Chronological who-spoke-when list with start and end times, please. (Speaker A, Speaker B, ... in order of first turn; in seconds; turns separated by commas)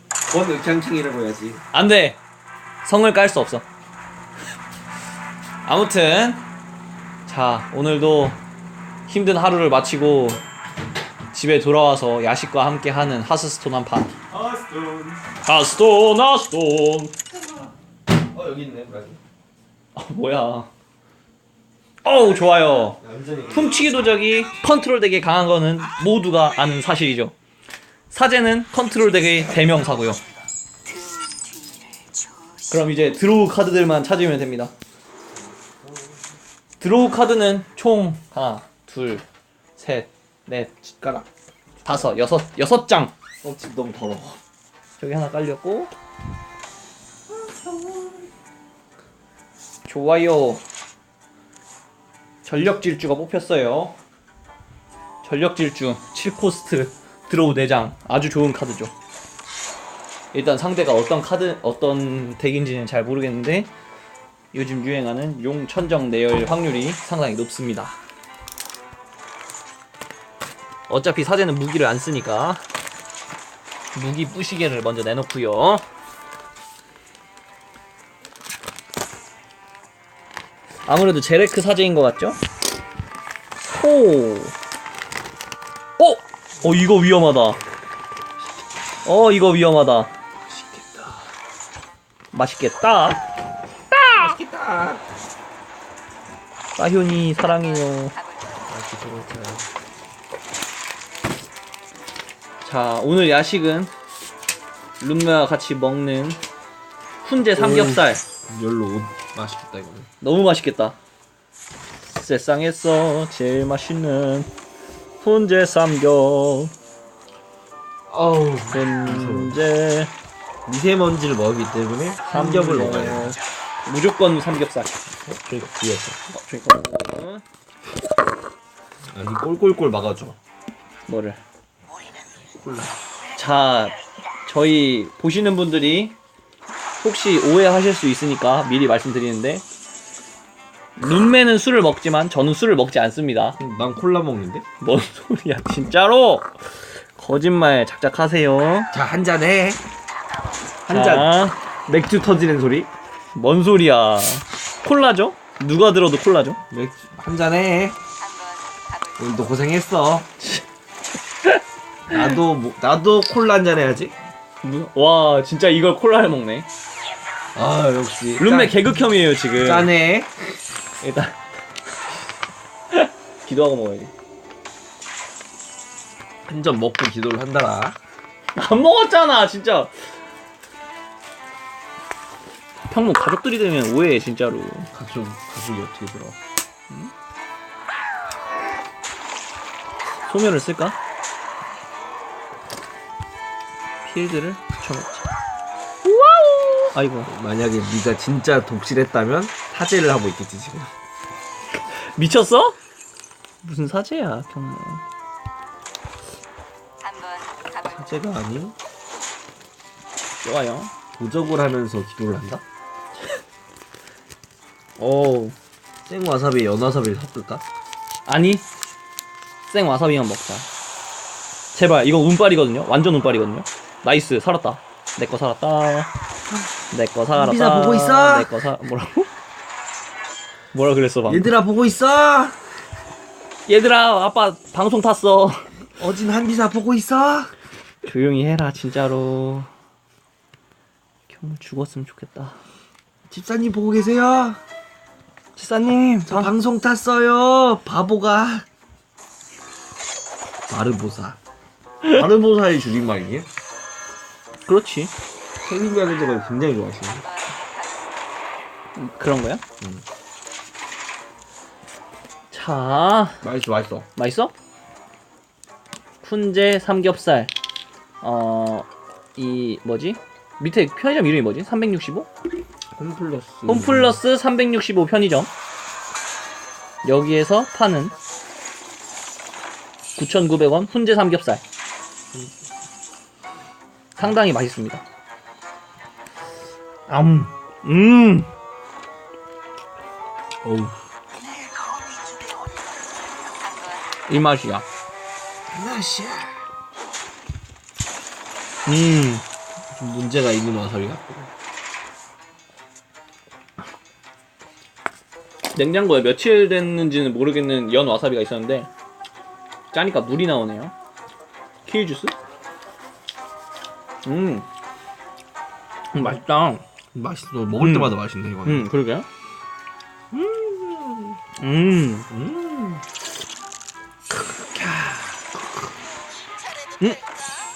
Speaker A: 0.3-1.6, Speaker B: 1.7-2.2, Speaker B: 2.8-3.6, Speaker B: 5.7-6.4, Speaker B: 7.3-8.4, Speaker B: 9.1-10.4, Speaker B: 11.3-14.2, Speaker A: 14.3-15.2, Speaker B: 15.4-17.2, Speaker A: 18.2-19.2, Speaker B: 19.9-20.7, Speaker B: 22.0-23.0, Speaker A: 23.0-23.8, Speaker B: 23.5-27.3, Speaker B: 28.1-30.2, Speaker B: 32.7-34.7, Speaker B: 36.8-39.2, Speaker B: 39.8-41.2, Speaker B: 41.8-43.1, Speaker A: 43.4-44.4, Speaker B: 45.0-45.9, Speaker A: 47.3-48.3, Speaker B: 49.9-50.6, Speaker B: 52.5-54.0, Speaker B: 55.2-58.9, Speaker B: 60.3-63.7, Speaker B: 64.5-68.0, Speaker B: 70.9-72.7, Speaker B: 74.0-75.8, Speaker B: 80.9-82.4, Speaker B: 83.7-84.5, Speaker B: 86.0-87.6, Speaker B: 89.0-90.1, Speaker A: 90.5-91.2, Speaker B: 92.3-93.2, Speaker B: 93.9-94.4, Speaker A: 94.1-95.0, Speaker B: 96.8-98.2, Speaker A: 98.7-99.7, Speaker B: 102.6-103.9, Speaker B: 105.0-106.4, Speaker B: 107.2-108.2, Speaker A: 107.5-110.1, Speaker B: 110.2-111.0, Speaker B: 112.0-114.5, Speaker B: 115.2-116.7, Speaker A: 118.1-119.6, Speaker B: 118.7-120.1, Speaker A: 120.7-123.4, Speaker B: 122.3-125.0, Speaker A: 125.3-126.2, Speaker B: 126.3-127.4, Speaker A: 129.1-130.4, Speaker B: 131.1-131.4, Speaker A: 132.6-133.0, Speaker B: 133.3-136.2, Speaker B: 137.0-139.6, Speaker B: 141.0-143.6, Speaker A: 143.6-144.7, Speaker B: 144.8-148.9, Speaker A: 148.9-149.8, Speaker A: 150.9-151.3, Speaker B: 150.9-151.8, Speaker A: 151.9-152.9, Speaker B: 153.3-156.6, Speaker A: 156.7-158.0, Speaker A: 159.2-160.3, Speaker A: 162.1-164.2, Speaker B: 164.6-166.7, Speaker A: 167.6-168.9, Speaker B: 168.4-169.9, Speaker A: 169.6-170.3, Speaker B: 171.0-171.4, Speaker B: 172.9-174.1, Speaker A: 176.5-178.0, Speaker B: 178.6-179.9, Speaker B: 182.9-184.9, Speaker A: 184.9-186.4, Speaker B: 190.3-191.0, Speaker B: 194.1-195.3, Speaker B: 196.0-197.3, Speaker A: 197.3-200.9, Speaker B: 201.7-202.8, Speaker B: 203.6-205.0, Speaker A: 207.8-208.8, Speaker B: 210.4-210.9, Speaker A: 211.2-212.6, Speaker B: 215.0-215.6, Speaker A: 216.1-217.6, Speaker B: 218.3-218.6, Speaker B: 219.7-220.7, Speaker B: 221.8-226.1, Speaker B: 226.9-229.3, Speaker A: 227.3-228.5, Speaker B: 230.7-231.5, Speaker A: 231.3-232.7, Speaker B: 233.7-235.7, Speaker A: 236.0-237.5, Speaker B: 238.0-239.7, Speaker B: 241.3-242.6, Speaker A: 243.3-244.6, Speaker B: 245.6-246.5, Speaker A: 246.3-248.7, Speaker A: 250.7-251.4, Speaker A: 252.1-253.5, Speaker B: 254.7-255.1, Speaker A: 255.6-257.3, Speaker B: 259.0-259.6, Speaker B: 262.5-263.4, Speaker A: 263.4-264.1, Speaker B: 264.2-264.5, Speaker B: 266.2-267.5, Speaker B: 268.2-272.3, Speaker A: 273.0-274.2, Speaker B: 273.7-275.5, Speaker B: 277.0-278.2, Speaker B: 280.2-281.6, Speaker B: 284.2-285.0, Speaker B: 287.1-288.5, Speaker A: 290.6-291.0, Speaker B: 294.3-294.9, Speaker A: 295.7-296.6, Speaker B: 298.9-299.4, Speaker A: 299.9-301.5, Speaker B: 305.7-308.9, Speaker B: 309.9-310.9, Speaker B: 311.9-312.3, Speaker B: 314.2-314.7, Speaker B: 316.1-316.8, Speaker A: 317.1-318.9, Speaker B: 317.8-319.3, Speaker A: 320.3-321.4, Speaker B: 321.6-322.3, Speaker A: 322.3-323.0, Speaker A: 324.3-325.8